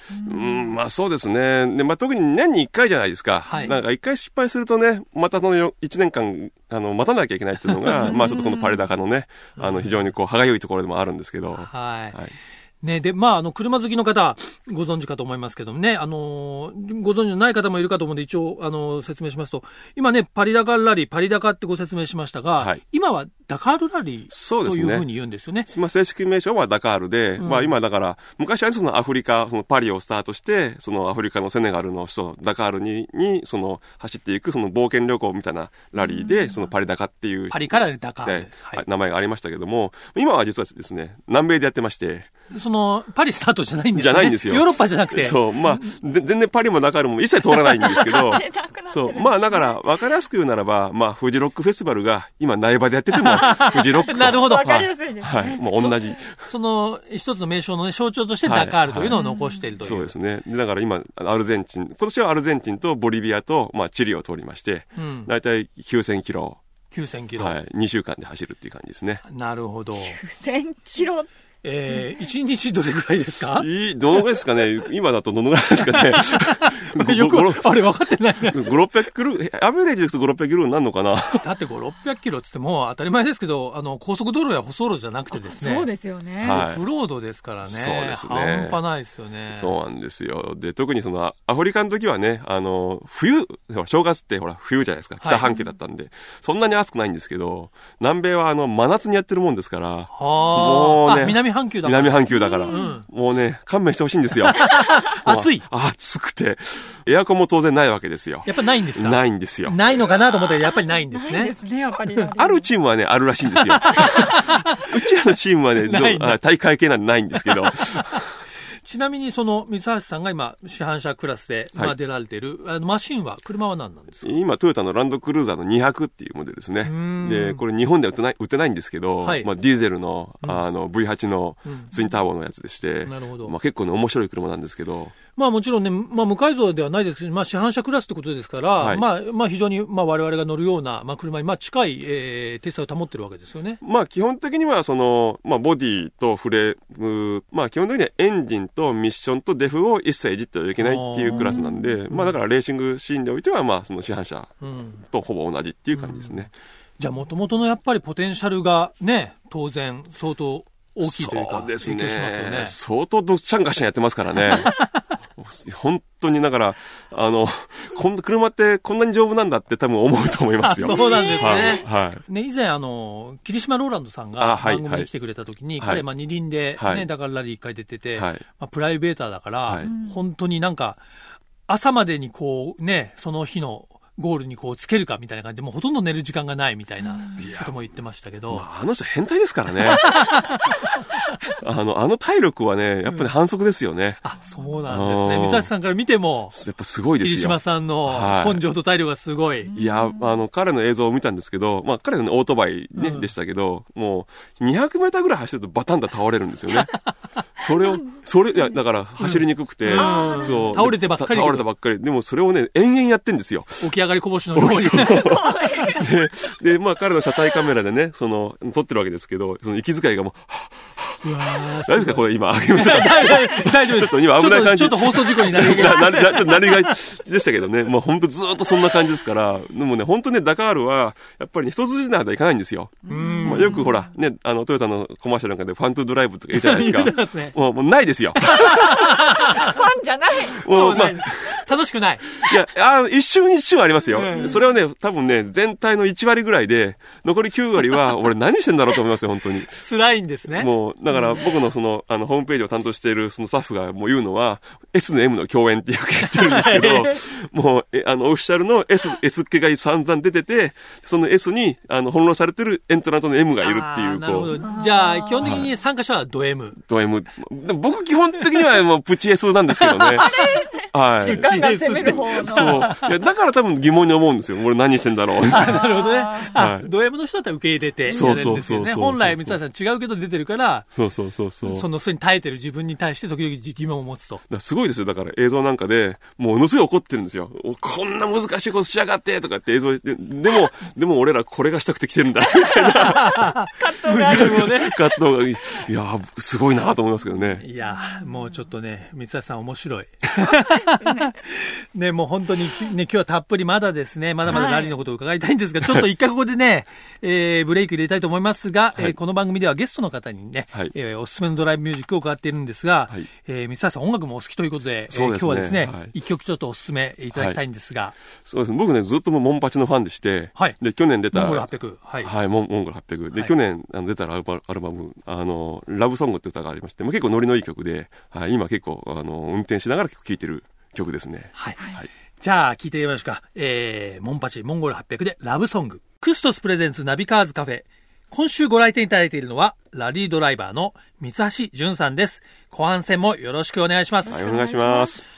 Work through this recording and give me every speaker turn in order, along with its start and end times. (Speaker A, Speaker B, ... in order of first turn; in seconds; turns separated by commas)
Speaker A: 0.1-0.7, Speaker B: 0.2-12.3, Speaker C: 3.5-3.8, Speaker C: 7.9-8.2, Speaker A: 7.9-8.8, Speaker C: 9.6-10.0, Speaker C: 11.6-12.2, Speaker C: 12.8-25.7, Speaker B: 24.3-25.1, Speaker B: 25.7-42.3, Speaker C: 27.4-27.7, Speaker A: 36.0-36.6, Speaker C: 37.5-38.8, Speaker C: 42.5-45.9, Speaker B: 43.9-56.4, Speaker A: 47.8-49.8, Speaker C: 53.3-54.7, Speaker A: 53.5-56.2, Speaker C: 56.4-60.1, Speaker B: 58.5-59.2, Speaker A: 59.1-59.6, Speaker B: 59.8-66.6, Speaker C: 65.0-65.3, Speaker C: 66.9-67.5, Speaker B: 67.4-69.2, Speaker C: 69.2-70.2, Speaker A: 70.0-71.3, Speaker C: 71.6-73.7, Speaker B: 73.6-77.8, Speaker C: 75.9-78.7, Speaker B: 78.5-81.5, Speaker C: 81.4-85.9, Speaker A: 85.3-86.7, Speaker B: 86.4-86.8, Speaker C: 86.4-89.7, Speaker B: 87.7-88.8, Speaker B: 89.5-109.8, Speaker C: 95.2-95.5, Speaker C: 100.1-103.1, Speaker A: 102.3-103.0, Speaker C: 104.6-105.7, Speaker C: 108.5-111.5, Speaker A: 111.1-112.7, Speaker B: 112.4-118.2, Speaker C: 113.8-114.9, Speaker C: 115.8-116.4, Speaker C: 117.5-118.2, Speaker C: 118.8-124.3, Speaker B: 124.2-135.2, Speaker C: 126.8-127.6, Speaker C: 129.2-129.5, Speaker C: 131.7-131.9, Speaker C: 133.1-133.5, Speaker C: 135.3-143.8, Speaker B: 138.8-139.1, Speaker B: 143.8-156.5, Speaker C: 150.8-152.3, Speaker A: 151.3-151.9, Speaker C: 154.6-155.0, Speaker C: 155.9-156.5, Speaker C: 157.0-162.8, Speaker B: 161.0-164.8, Speaker C: 164.5-165.0, Speaker B: 165.4-172.2, Speaker C: 170.6-181.0, Speaker A: 170.8-171.8, Speaker B: 174.4-175.1, Speaker B: 175.8-176.1, Speaker B: 176.8-177.1, Speaker B: 178.2-178.4, Speaker A: 179.8-180.2, Speaker C: 181.7-188.7, Speaker B: 187.4-187.7, Speaker B: 188.5-190.2, Speaker C: 189.9-190.7, Speaker B: 191.6-194.2, Speaker C: 194.2-196.6, Speaker B: 194.9-195.7, Speaker B: 196.5-198.6, Speaker C: 197.2-199.7, Speaker A: 199.7-200.3, Speaker B: 199.8-206.9, Speaker C: 202.9-203.3, Speaker B: 207.6-213.9, Speaker A: 207.8-208.2, Speaker C: 209.2-211.7, Speaker A: 209.9-210.8, Speaker C: 213.8-215.5, Speaker B: 214.5-239.2, Speaker A: 215.2-216.1, Speaker C: 221.2-226.9, Speaker C: 233.1-233.8, Speaker A: 233.1-233.9, Speaker C: 236.5-237.6, Speaker C: 238.5-239.8, Speaker A: 239.2-240.7, Speaker B: 240.5-241.7, Speaker C: 240.7-242.3, Speaker B: 242.4-249.8, Speaker C: 244.1-244.6, Speaker A: 244.3-244.6, Speaker C: 249.8-250.7, Speaker B: 250.5-264.6, Speaker C: 256.3-257.2, Speaker C: 263.6-266.8, Speaker A: 264.6-265.5, Speaker B: 265.4-265.7, Speaker B: 266.8-275.8, Speaker C: 269.8-270.5, Speaker A: 270.2-272.9, Speaker C: 271.2-273.1, Speaker C: 275.5-280.9, Speaker A: 275.6-276.6, Speaker B: 276.5-276.9, Speaker A: 278.1-278.6, Speaker B: 278.1-279.6, Speaker B: 280.9-281.9, Speaker C: 281.6-284.4, Speaker B: 284.5-293.6, Speaker C: 293.0-295.0, Speaker A: 293.8-295.1, Speaker B: 294.2-297.6, Speaker C: 297.6-318.2, Speaker A: 297.9-298.3, Speaker A: 300.6-301.3, Speaker A: 304.5-305.0, Speaker B: 315.1-316.1, Speaker B: 317.3-317.6, Speaker B: 318.4-321.7, Speaker C: 321.3-322.3, Speaker B: 322.2-332.1, Speaker C: 332.4-344.4, Speaker A: 344.3-345.2, Speaker B: 344.3-345.2